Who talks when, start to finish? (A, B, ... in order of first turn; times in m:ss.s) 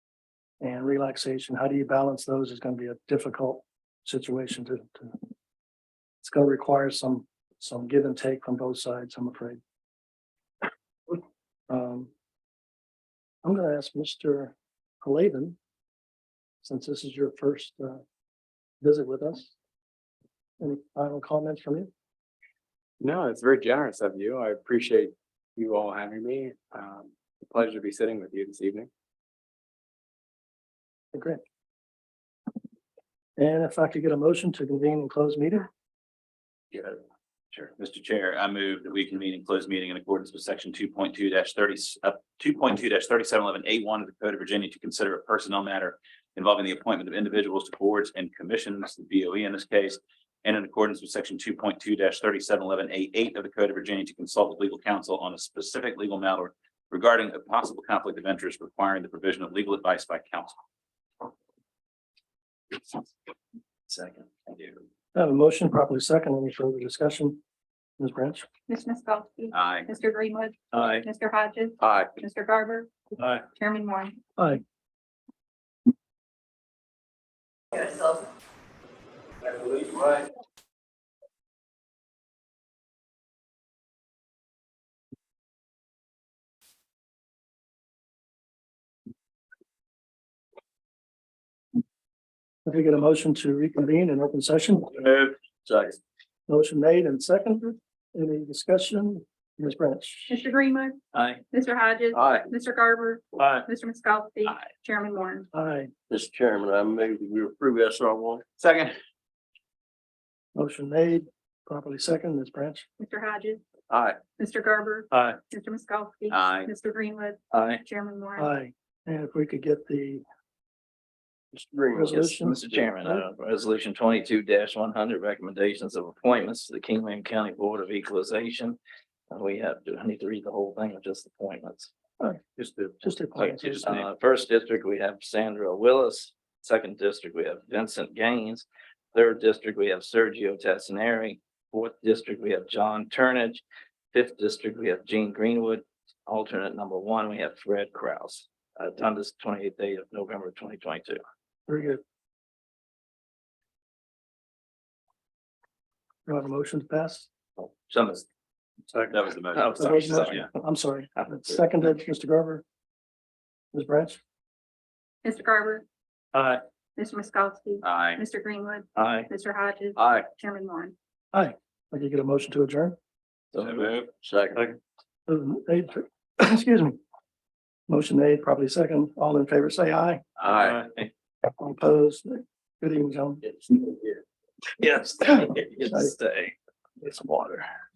0:00.6-0:05.2 A
0:06.2-0:09.6 A
0:11.7-0:12.1 A
0:13.4-0:15.6 A
0:16.6-0:18.0 A
0:18.8-0:19.5 A
0:20.6-0:21.9 A
0:23.0-0:28.9 B
0:31.1-0:31.4 A
0:33.4-0:35.7 A
0:37.8-1:00.6 C
1:05.1-1:07.4 A
1:08.0-1:08.5 A
1:08.7-1:13.0 D
1:09.5-1:09.9 C
1:10.7-1:11.1 E
1:13.5-1:14.2 D
1:32.6-1:35.0 A
1:35.6-1:36.0 F
1:36.5-1:40.3 A
1:40.3-1:41.0 D
1:41.1-1:41.4 E
1:41.5-1:45.5 D
1:42.1-1:42.5 F
1:45.5-1:45.9 A
1:46.1-1:48.4 F
1:48.6-1:49.0 C
1:50.6-1:52.9 A
1:53.0-1:53.6 D
1:53.9-1:54.2 F
1:54.4-1:58.5 D
1:56.3-1:56.7 C
1:57.5-1:57.8 E
1:58.4-2:00.2 A
2:01.5-2:02.1 F
2:02.0-2:03.2 A
2:02.0-2:08.8 E
2:09.3-2:11.9 E
2:13.0-2:13.9 A
2:13.4-2:31.2 E
2:31.7-2:32.0 A
2:36.3-2:37.3 A
2:37.6-2:38.2 E
2:39.1-2:40.5 C
2:39.5-2:40.5 E
2:39.8-2:42.6 A
2:41.2-2:41.6 E
2:43.7-2:44.2 A
2:45.2-2:45.8 D
2:47.0-2:50.9 D
2:47.8-2:48.2 C
2:49.0-2:49.3 E
2:51.3-2:53.0 A
2:53.5-2:54.0 E
2:53.6-2:54.0 C
2:54.2-2:54.6 F
2:55.3-2:57.0 A
2:57.9-3:00.2 A
3:00.4-3:00.8 F
3:00.5-3:01.1 E
3:01.6-3:03.4 A
3:03.4-3:04.2 F
3:04.8-3:06.6 E
3:07.0-3:07.7 A